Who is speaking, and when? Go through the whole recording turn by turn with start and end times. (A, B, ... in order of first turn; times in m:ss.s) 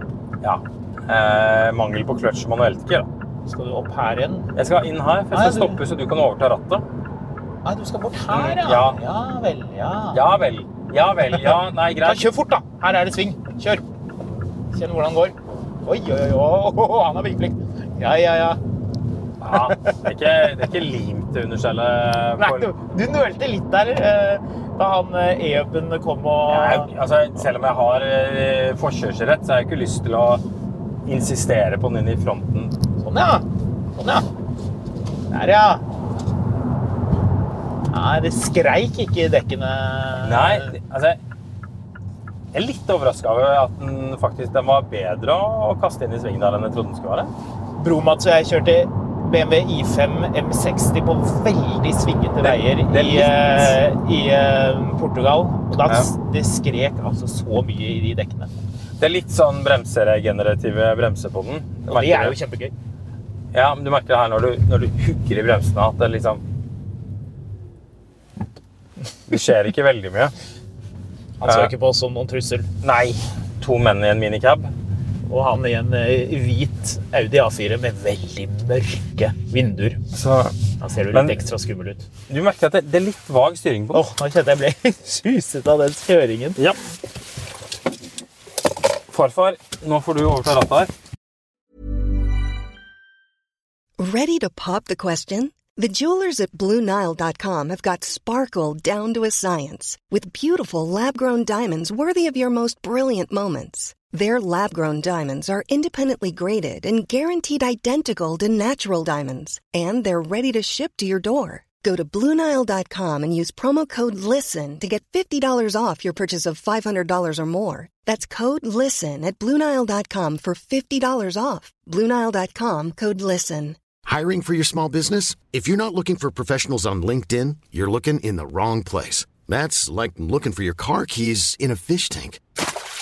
0:00.4-0:03.1 A
0:03.5-0:04.5 B
0:04.6-0:06.8 A
0:05.3-0:05.8 B
0:07.6-0:10.2 B
0:08.3-0:09.0 A
0:10.1-0:12.3 A
0:11.3-0:13.8 B
0:14.7-0:18.6 B
0:19.4-0:22.7 A
0:19.5-0:20.0 B
0:22.4-0:26.9 B
0:26.5-0:30.4 A
0:31.0-0:32.8 A
0:33.0-0:33.4 B
0:34.0-0:34.3 B
0:35.3-0:35.8 B
0:37.9-0:40.8 B
0:40.2-0:41.2 A
0:42.5-0:47.3 A
0:47.8-0:58.5 B
0:52.4-0:53.8 A
0:59.0-1:02.4 A
1:01.9-1:02.7 B
1:03.5-1:06.4 A
1:09.3-1:10.3 A
1:11.4-1:12.7 B
1:11.4-1:11.7 A
1:12.8-1:14.7 A
1:15.3-1:20.0 B
1:20.1-1:20.6 A
1:20.8-1:22.1 B
1:21.1-1:21.4 A
1:22.3-1:24.1 A
1:23.9-1:26.6 B
1:29.1-1:30.9 A
1:34.0-2:03.8 C
2:04.0-2:12.4 D